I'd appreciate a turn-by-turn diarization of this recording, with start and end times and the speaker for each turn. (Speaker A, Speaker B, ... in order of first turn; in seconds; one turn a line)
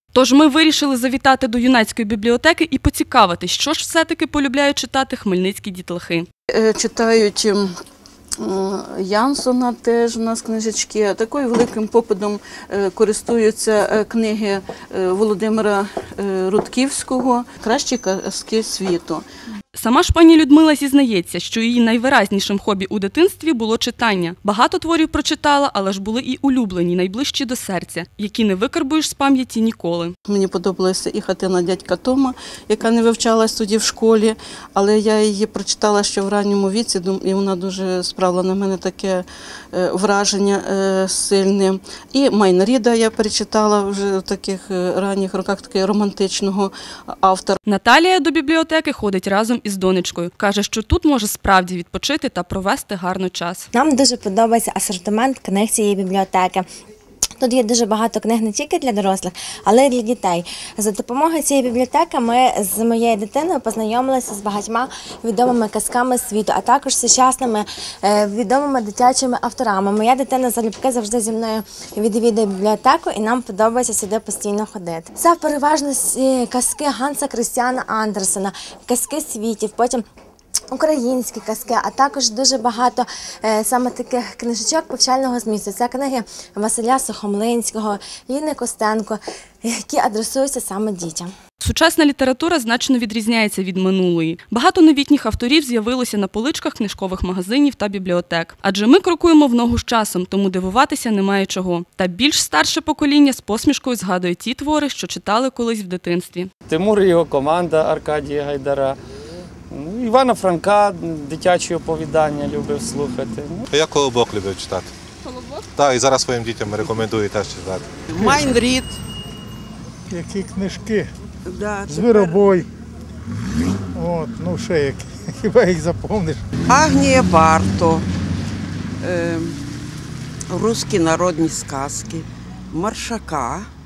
Speaker A: 0.1-6.3
Speaker B: 6.5-7.7
Speaker B: 8.4-19.2
Speaker A: 19.7-30.1
Speaker B: 30.3-47.6
Speaker A: 47.7-53.7
Speaker C: 53.7-56.6
Speaker C: 57.4-80.0
Speaker C: 80.7-91.3
Speaker A: 91.6-106.5
Speaker D: 106.7-109.0
Speaker D: 109.7-113.7
Speaker E: 113.7-114.9
Speaker E: 115.7-117.9
Speaker F: 118.1-119.0
Speaker G: 118.2-118.5
Speaker G: 120.1-121.1
Speaker F: 121.4-122.5
Speaker G: 121.8-122.7
Speaker G: 123.9-126.4
Speaker F: 126.7-128.1
Speaker F: 129.0-129.6
Speaker F: 130.5-133.7